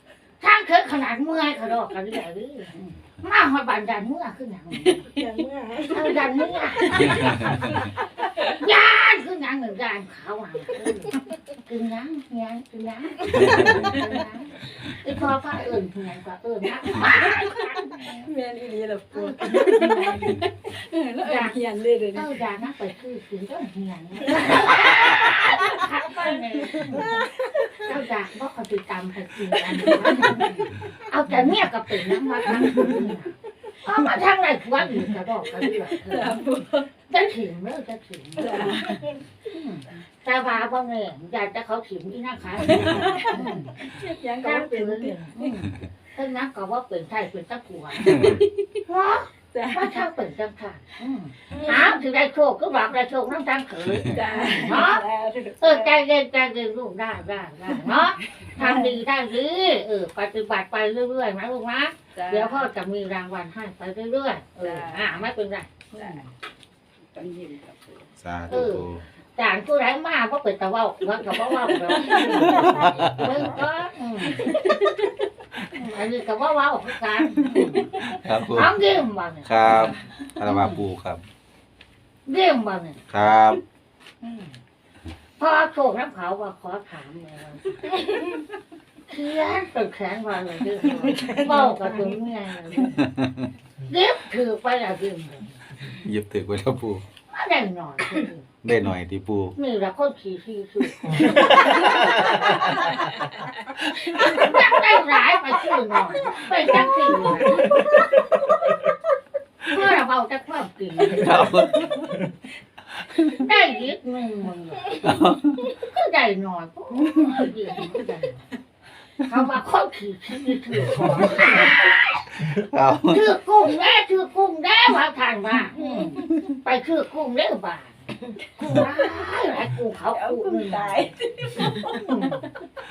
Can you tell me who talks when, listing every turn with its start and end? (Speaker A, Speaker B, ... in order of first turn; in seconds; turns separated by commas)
Speaker A: 0.4-5.1, Speaker B: 4.9-6.3, Speaker A: 5.9-18.3, Speaker B: 13.3-14.1, Speaker C: 13.4-13.7, Speaker B: 16.9-17.6, Speaker B: 18.2-22.3, Speaker A: 19.1-20.3, Speaker A: 21.2-21.6, Speaker A: 22.1-27.2, Speaker B: 24.4-25.6, Speaker B: 26.8-27.7, Speaker A: 27.8-36.4, Speaker B: 29.8-30.5, Speaker B: 36.0-36.9, Speaker A: 37.1-38.9, Speaker B: 38.4-39.2, Speaker A: 39.5-43.9, Speaker B: 42.7-45.5, Speaker A: 44.4-55.0, Speaker B: 48.0-48.5, Speaker B: 49.5-49.8, Speaker B: 51.5-52.0, Speaker B: 54.1-55.9, Speaker A: 55.6-66.3, Speaker B: 58.6-58.9, Speaker B: 62.2-62.7, Speaker B: 64.7-65.2, Speaker B: 65.9-66.2, Speaker B: 67.1-68.1, Speaker C: 68.2-69.0, Speaker A: 68.5-74.5, Speaker B: 71.8-73.4, Speaker C: 72.5-73.3, Speaker B: 74.4-75.1, Speaker A: 75.6-80.8, Speaker C: 78.1-78.8, Speaker C: 79.4-81.2, Speaker A: 82.3-83.0, Speaker C: 83.1-83.6, Speaker A: 84.2-84.5, Speaker A: 85.4-87.8, Speaker B: 88.0-88.4, Speaker A: 89.1-93.1, Speaker B: 90.8-92.2, Speaker C: 93.1-93.5, Speaker A: 93.9-95.6, Speaker C: 95.9-97.0, Speaker A: 97.3-98.5, Speaker C: 98.6-99.5, Speaker A: 99.6-102.7, Speaker B: 101.5-101.9, Speaker C: 101.8-102.4, Speaker A: 104.1-107.8, Speaker B: 106.3-108.1, Speaker A: 109.7-111.5, Speaker C: 111.0-112.1, Speaker A: 113.3-115.2, Speaker C: 115.0-115.6, Speaker A: 115.7-118.4, Speaker A: 119.2-122.1, Speaker C: 122.4-123.2, Speaker A: 123.1-127.9, Speaker B: 125.8-126.2, Speaker A: 128.6-131.0, Speaker B: 130.1-131.9, Speaker A: 131.6-132.5